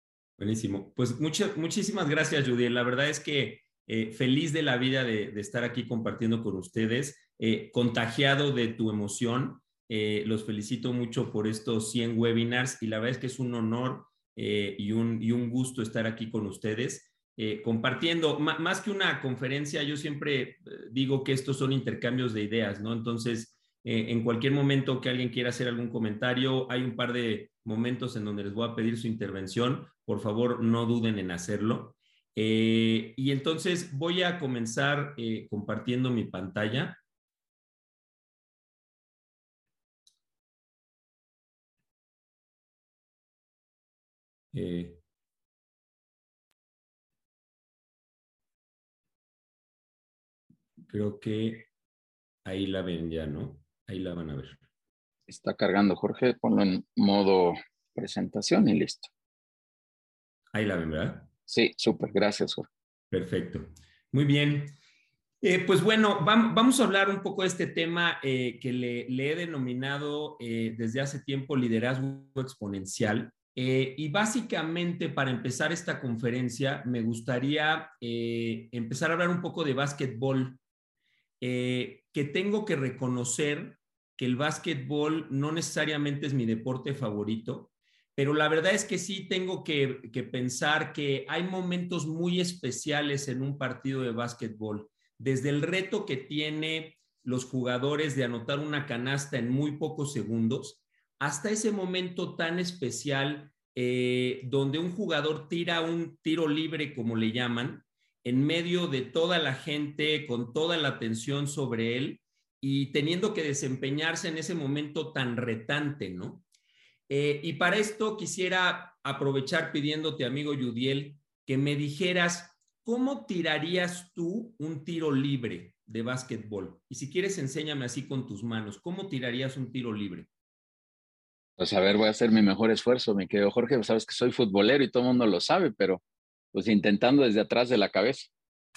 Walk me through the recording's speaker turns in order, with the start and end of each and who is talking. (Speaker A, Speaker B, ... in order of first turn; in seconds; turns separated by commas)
Speaker A: 0.4-37.0, Speaker A: 44.5-45.0, Speaker A: 50.9-51.7, Speaker A: 52.4-54.6, Speaker B: 55.3-59.1, Speaker A: 60.5-61.3, Speaker B: 61.5-62.7, Speaker A: 63.1-64.7, Speaker A: 65.4-80.6, Speaker A: 81.4-116.4, Speaker A: 117.1-130.3, Speaker B: 131.6-136.0, Speaker B: 136.5-138.3